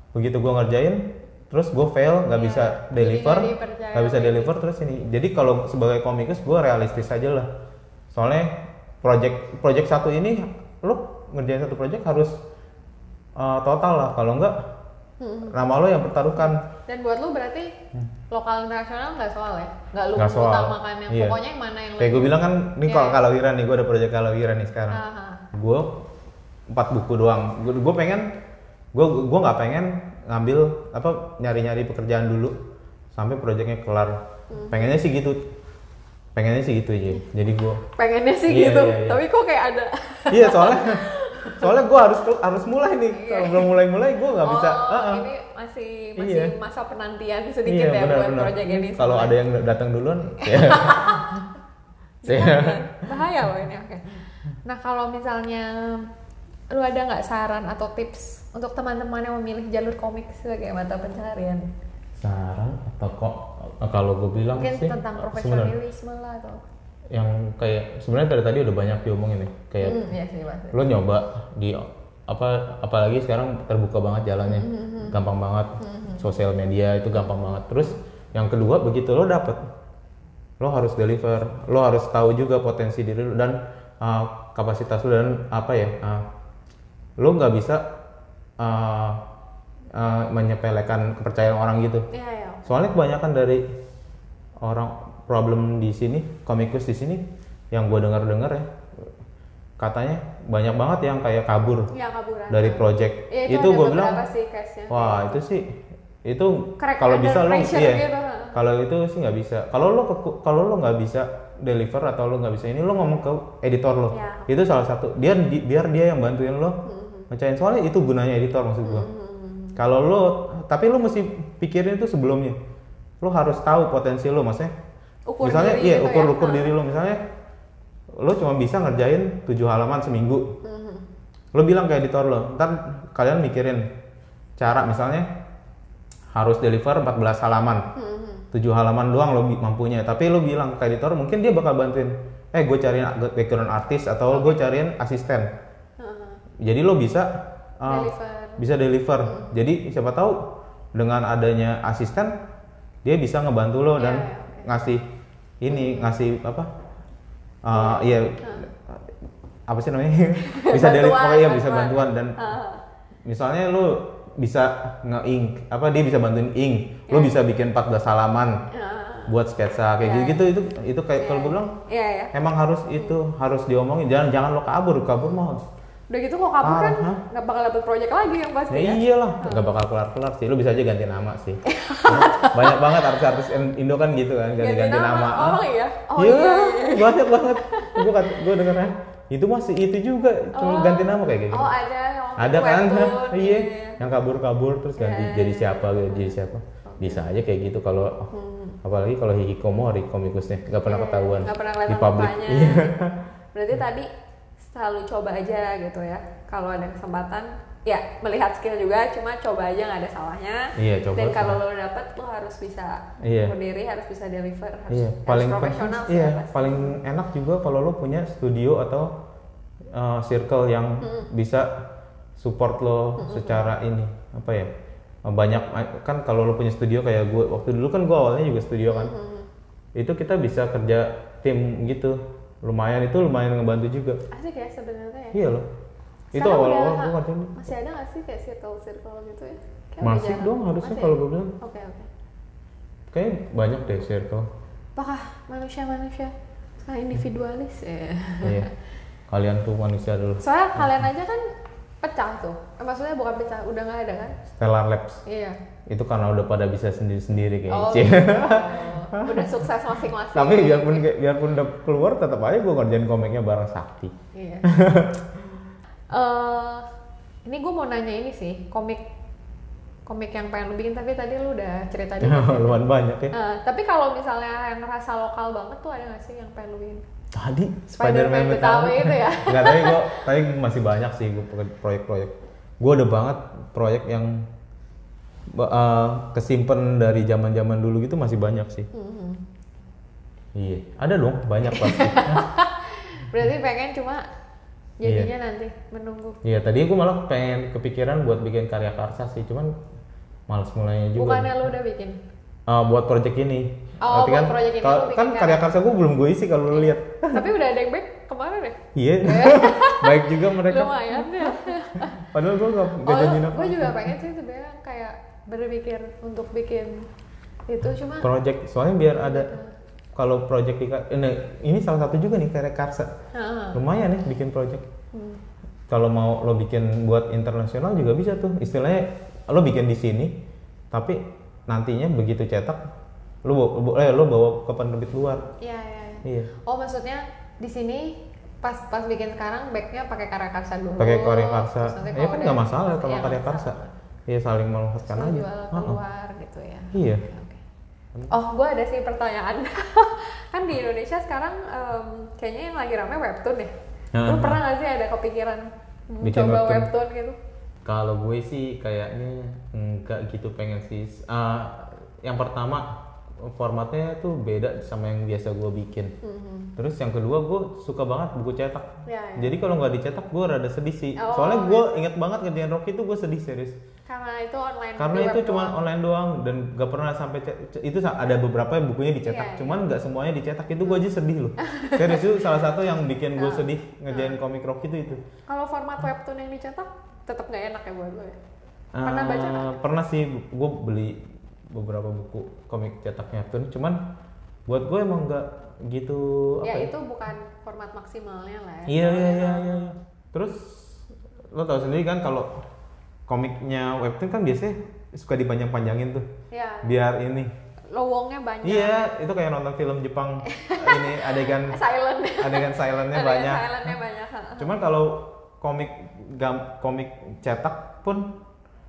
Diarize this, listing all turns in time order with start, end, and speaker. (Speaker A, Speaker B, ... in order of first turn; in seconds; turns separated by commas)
Speaker A: 0.1-7.5, Speaker B: 2.3-4.6, Speaker A: 8.1-12.4, Speaker A: 13.4-14.6, Speaker B: 15.2-15.6, Speaker A: 15.5-16.6, Speaker B: 16.9-17.7, Speaker B: 18.3-23.2, Speaker A: 20.2-21.4, Speaker A: 22.0-25.0, Speaker B: 24.9-25.4, Speaker A: 25.5-25.9, Speaker A: 26.7-28.3, Speaker A: 28.9-32.6, Speaker A: 33.1-35.4, Speaker B: 34.5-34.8, Speaker A: 36.3-37.8, Speaker B: 37.9-41.7, Speaker A: 38.5-39.2, Speaker A: 40.3-45.2, Speaker B: 43.1-43.7, Speaker B: 44.4-49.4, Speaker A: 46.2-46.5, Speaker A: 47.6-51.4, Speaker B: 50.4-51.4, Speaker B: 52.2-56.1, Speaker A: 52.2-53.0, Speaker B: 56.7-61.7, Speaker A: 62.2-65.7, Speaker B: 64.5-66.6, Speaker A: 67.1-70.0, Speaker B: 69.8-70.9, Speaker A: 70.7-79.6, Speaker B: 74.4-75.2, Speaker B: 75.8-76.2, Speaker B: 77.1-77.8, Speaker A: 80.6-86.2, Speaker A: 87.2-87.8, Speaker A: 88.6-89.2, Speaker A: 89.9-92.1, Speaker B: 92.1-92.7, Speaker A: 92.7-93.7, Speaker A: 94.6-99.0, Speaker A: 99.8-101.9, Speaker B: 101.9-105.3, Speaker A: 102.5-104.2, Speaker A: 104.9-116.8, Speaker B: 106.8-108.6, Speaker B: 114.1-114.5, Speaker B: 116.8-117.3, Speaker A: 117.3-119.1, Speaker B: 118.8-119.8, Speaker A: 119.8-122.6, Speaker A: 123.2-124.7, Speaker B: 125.3-126.7, Speaker A: 125.4-127.2, Speaker A: 128.2-130.5, Speaker B: 130.6-131.1, Speaker A: 131.5-133.9, Speaker A: 134.6-135.3, Speaker A: 136.3-137.8, Speaker B: 137.9-138.5, Speaker A: 138.5-145.5, Speaker B: 144.3-144.6, Speaker B: 146.0-146.4, Speaker A: 146.6-150.4, Speaker B: 147.8-148.6, Speaker B: 149.2-149.5, Speaker A: 150.9-152.3, Speaker A: 153.0-155.0, Speaker B: 153.9-154.7, Speaker A: 155.6-156.7, Speaker B: 155.7-156.2, Speaker A: 157.6-159.1, Speaker B: 157.7-158.7, Speaker A: 159.7-162.4, Speaker B: 160.4-162.8, Speaker A: 163.2-168.6, Speaker B: 167.1-167.3, Speaker B: 168.7-169.3, Speaker A: 169.3-171.7, Speaker B: 170.0-170.4, Speaker B: 171.2-172.3, Speaker A: 172.3-175.6, Speaker B: 176.1-179.7, Speaker A: 176.6-177.2, Speaker A: 178.7-191.7, Speaker B: 181.6-183.3, Speaker B: 184.6-188.4, Speaker B: 190.5-194.1, Speaker A: 192.4-198.3, Speaker B: 195.0-197.3, Speaker B: 198.3-198.8, Speaker A: 198.8-203.2, Speaker B: 200.8-202.9, Speaker B: 203.5-204.1, Speaker B: 204.6-216.9, Speaker A: 210.8-211.6, Speaker A: 213.2-213.5, Speaker A: 214.9-219.1, Speaker A: 219.9-221.7, Speaker B: 221.0-221.3, Speaker A: 222.4-224.7, Speaker B: 223.2-223.7, Speaker A: 225.2-229.1, Speaker B: 228.9-229.5, Speaker A: 229.9-234.2, Speaker B: 234.3-235.4, Speaker A: 235.3-235.7, Speaker A: 236.3-237.6, Speaker B: 236.3-242.1, Speaker A: 240.0-241.5, Speaker A: 243.1-244.5, Speaker B: 244.9-248.7, Speaker A: 248.4-248.7, Speaker A: 249.3-251.0, Speaker B: 250.4-254.3, Speaker A: 254.6-255.2, Speaker B: 255.2-255.6, Speaker A: 255.9-259.5, Speaker B: 257.7-261.1, Speaker A: 260.3-265.4, Speaker B: 264.3-264.7, Speaker B: 266.1-266.9, Speaker B: 267.4-269.0, Speaker B: 270.1-272.8, Speaker A: 272.2-273.3, Speaker B: 273.3-277.0, Speaker A: 277.3-284.5, Speaker B: 277.9-280.2, Speaker A: 285.5-288.9, Speaker B: 288.9-289.4, Speaker A: 290.5-292.5, Speaker B: 291.6-294.3, Speaker B: 295.0-296.4, Speaker A: 295.0-295.3, Speaker A: 296.4-299.7, Speaker A: 300.5-301.6, Speaker B: 301.1-302.2, Speaker A: 302.7-307.4, Speaker B: 304.0-305.6, Speaker B: 306.7-312.3, Speaker A: 308.9-314.1, Speaker B: 313.0-317.1, Speaker B: 317.7-318.3, Speaker A: 318.2-319.5, Speaker B: 319.1-319.7, Speaker A: 320.1-323.1, Speaker B: 323.3-323.8, Speaker A: 323.7-324.9, Speaker B: 325.1-325.4, Speaker A: 325.9-330.3, Speaker A: 330.9-332.8, Speaker A: 333.4-335.5, Speaker B: 335.6-343.9, Speaker A: 336.2-336.5, Speaker A: 341.0-346.0, Speaker B: 345.0-347.6, Speaker A: 346.9-347.2, Speaker B: 348.3-353.7, Speaker A: 354.1-354.6, Speaker B: 354.2-357.4, Speaker A: 356.2-356.9, Speaker A: 357.8-366.1, Speaker B: 366.2-366.7, Speaker A: 366.8-373.8, Speaker B: 369.1-369.6, Speaker B: 371.1-371.9, Speaker B: 374.1-375.8, Speaker A: 375.0-385.2, Speaker B: 379.2-379.8, Speaker B: 381.6-382.5, Speaker B: 383.3-384.4, Speaker B: 385.5-388.4, Speaker A: 388.9-394.0, Speaker B: 389.0-389.8, Speaker A: 394.6-396.9, Speaker B: 396.6-399.9, Speaker A: 398.9-402.5, Speaker A: 403.3-406.3, Speaker B: 406.5-406.9, Speaker A: 406.8-407.5, Speaker B: 407.9-409.0, Speaker A: 408.6-411.8, Speaker B: 410.4-414.7, Speaker A: 412.4-413.9, Speaker A: 414.6-418.3